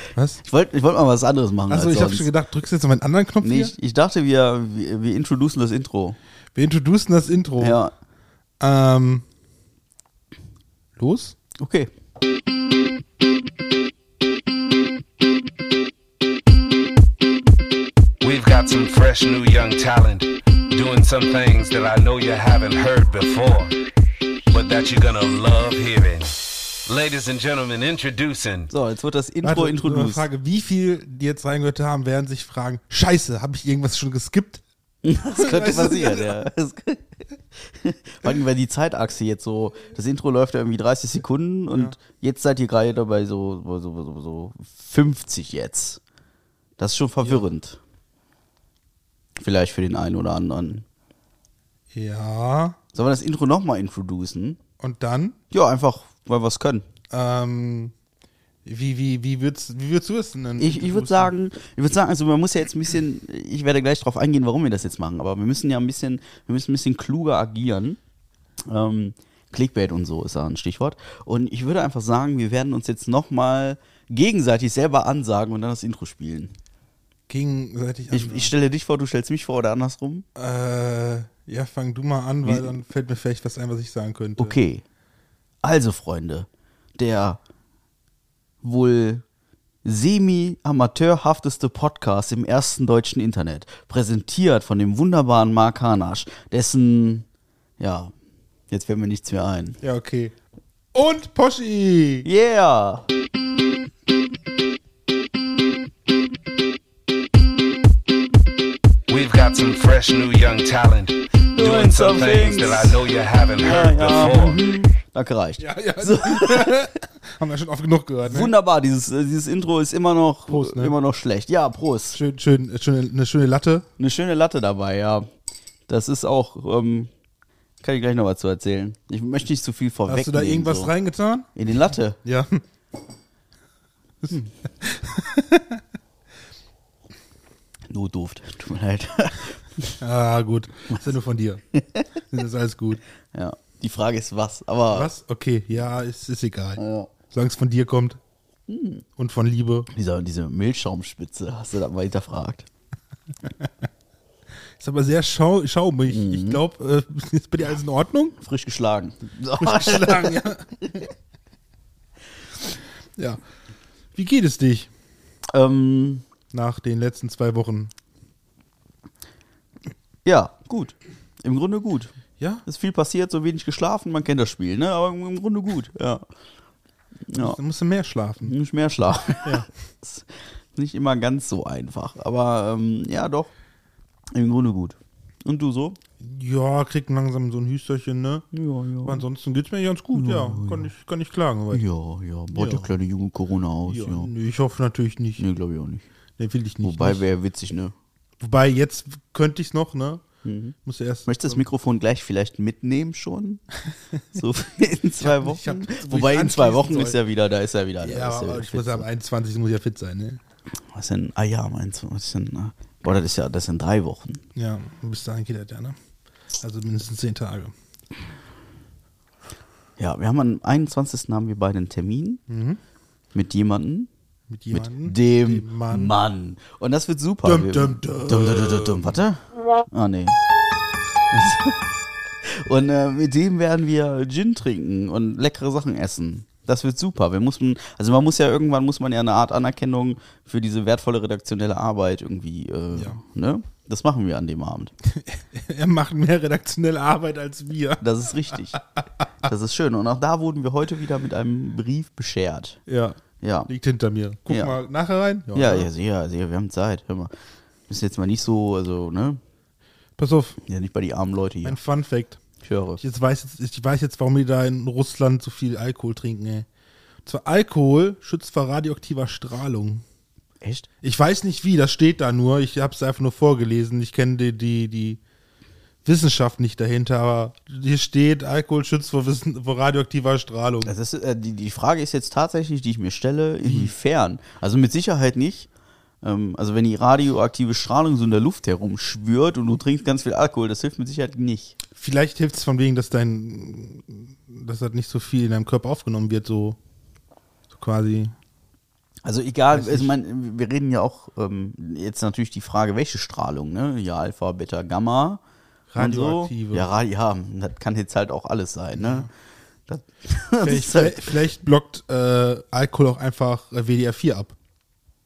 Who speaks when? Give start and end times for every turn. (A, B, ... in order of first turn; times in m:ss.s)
0:00.1-0:00.4 A
0:00.4-0:02.3 B
0:01.7-0:03.7 A
0:03.4-0:06.2 B
0:06.5-0:07.8 A
0:07.6-0:07.9 B
0:08.6-0:09.2 A
0:11.0-0:11.4 A
0:11.6-0:11.9 B
0:18.2-0:23.8 C
0:24.5-0:28.7 C
0:28.7-0:30.2 B
0:29.4-0:34.6 A
0:35.0-0:46.0 B
0:35.4-0:36.4 A
0:46.8-0:47.8 B
0:49.4-0:50.8 B
0:51.9-0:52.8 A
0:52.9-0:54.6 B
0:54.8-0:55.3 A
0:55.5-0:56.8 B
0:57.1-0:57.9 A
0:58.6-1:01.3 A
1:00.6-1:08.0 B
1:08.7-1:16.5 B
1:17.3-1:18.5 A
1:18.1-1:20.2 B
1:20.4-1:24.6 A
1:22.4-1:22.7 B
1:24.4-1:24.8 B
1:25.6-1:26.5 B
1:27.0-1:27.4 B
1:28.6-1:29.2 B
1:29.8-1:37.2 B
1:37.8-1:38.1 B
1:38.7-1:39.8 B
1:39.8-1:40.3 A
1:40.9-1:42.2 A
1:42.2-1:43.0 B
1:49.1-1:54.6 C
1:51.5-1:53.0 B
1:53.6-1:56.8 B
1:55.6-1:58.5 A
1:58.2-2:02.2 B
2:00.5-2:00.9 A
2:02.1-2:03.8 A
2:04.0-2:05.2 B
2:05.9-2:07.1 B
2:07.8-2:10.9 B
2:10.1-2:11.5 A
2:11.5-2:12.2 B
2:12.2-2:12.6 A
2:14.2-2:15.8 A
2:17.9-2:20.0 B
2:20.0-2:21.6 A
2:21.8-2:22.0 B
2:22.3-2:23.0 A
2:23.3-2:25.1 B
2:24.9-2:28.2 A
2:26.8-2:27.1 B
2:28.7-2:29.0 B
2:29.2-2:29.9 A
2:29.9-2:32.7 B
2:34.8-2:38.3 A
2:36.1-2:36.6 B
2:38.4-2:40.4 B
2:39.6-2:41.1 A
2:44.1-2:44.9 A
2:45.5-2:46.2 B
2:46.5-2:47.9 A
2:50.2-2:52.1 B
2:52.4-2:52.6 A
2:52.6-2:56.2 B
2:57.3-2:57.6 B
2:57.3-2:58.5 A
2:58.4-3:03.5 B
3:04.3-3:06.0 B
3:06.2-3:08.4 A
3:08.5-3:09.2 B
3:09.0-3:11.8 A
3:10.1-3:10.9 B
3:11.7-3:14.3 B
3:12.5-3:12.9 A
3:13.9-3:15.4 A
3:15.4-3:16.0 B
3:16.4-3:17.2 A
3:16.8-3:17.9 B
3:18.4-3:20.2 A
3:20.4-3:20.7 B
3:20.8-3:21.6 A
3:21.3-3:23.6 B
3:24.3-3:29.0 B
3:25.2-3:27.2 A
3:28.0-3:30.4 A
3:30.9-3:34.4 B
3:34.5-3:36.0 A
3:36.6-3:37.7 A
3:40.0-3:42.4 B
3:42.5-3:42.8 A
3:43.3-3:44.1 B
3:44.5-3:46.1 A
3:44.7-3:50.4 B
3:47.4-3:49.2 A
3:51.3-3:51.8 B
3:52.4-4:04.9 B
4:05.0-4:09.0 A
4:08.0-4:08.8 B
4:09.4-4:12.8 B
4:12.9-4:15.9 A
4:13.4-4:13.7 B
4:14.5-4:14.8 B
4:15.5-4:17.3 B
4:17.9-4:19.4 B
4:20.2-4:20.6 A
4:20.6-4:21.8 B
4:21.6-4:22.4 A
4:22.6-4:23.0 B
4:23.0-4:26.7 A
4:27.2-4:30.0 A
4:30.6-4:30.9 B
4:31.0-4:35.2 A
4:36.0-4:40.9 A
4:40.8-4:45.7 B
4:43.6-4:43.9 A
4:46.2-4:51.8 B
4:52.0-4:56.8 A
4:57.7-4:58.3 A
4:59.2-5:05.4 B
4:59.7-5:00.1 A
5:05.9-5:06.9 A
5:06.0-5:09.3 B
5:09.0-5:09.3 A
5:09.9-5:11.3 B
5:10.6-5:14.5 A